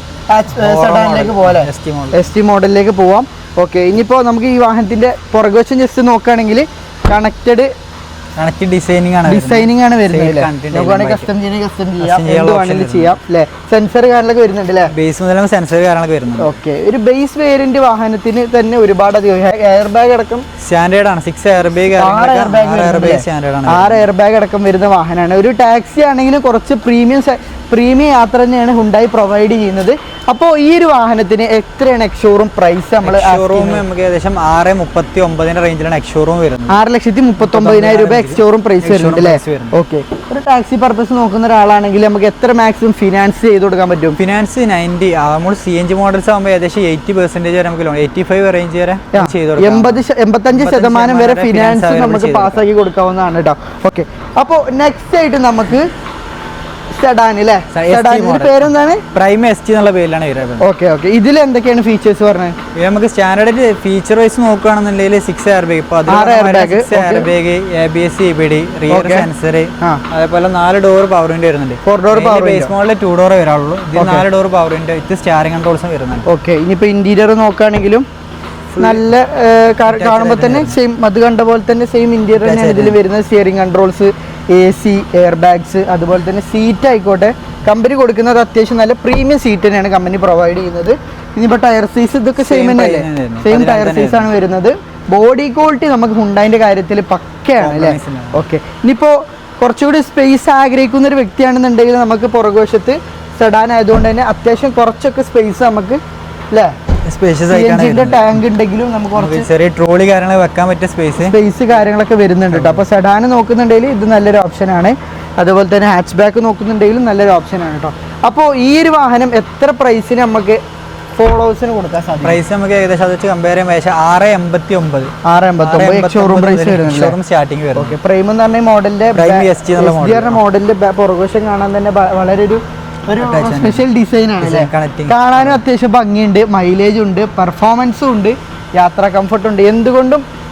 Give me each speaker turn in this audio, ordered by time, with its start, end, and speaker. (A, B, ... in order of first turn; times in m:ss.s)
0:00.3-0:07.7 A
0:00.5-0:02.2 B
0:08.4-0:11.3 B
0:09.2-0:14.9 A
0:12.0-0:13.2 B
0:14.9-0:16.6 B
0:16.4-0:20.4 A
0:20.6-0:24.0 B
0:21.9-0:33.8 A
0:33.0-0:36.8 B
0:36.7-0:44.2 A
0:37.4-0:39.8 B
0:44.2-0:50.0 B
0:49.1-0:55.9 A
0:50.5-0:52.6 B
0:57.0-0:59.0 A
0:57.7-1:00.6 B
1:00.6-1:02.6 A
1:02.7-1:16.2 B
1:06.1-1:07.3 A
1:08.9-1:09.3 A
1:11.8-1:12.7 A
1:14.0-1:14.2 A
1:16.3-1:18.0 A
1:18.7-1:19.0 B
1:18.8-1:46.0 A
1:19.8-1:20.8 B
1:22.4-1:23.0 B
1:32.4-1:34.3 B
1:37.6-1:38.4 B
1:47.0-1:48.4 B
1:47.5-1:49.5 A
1:49.1-1:51.4 B
1:51.2-2:00.6 A
1:52.5-1:52.8 B
2:01.2-2:02.4 A
2:02.2-2:05.1 B
2:05.2-2:07.1 A
2:05.6-2:07.9 B
2:07.7-2:20.2 A
2:09.1-2:10.4 B
2:13.2-2:13.8 B
2:14.4-2:15.6 B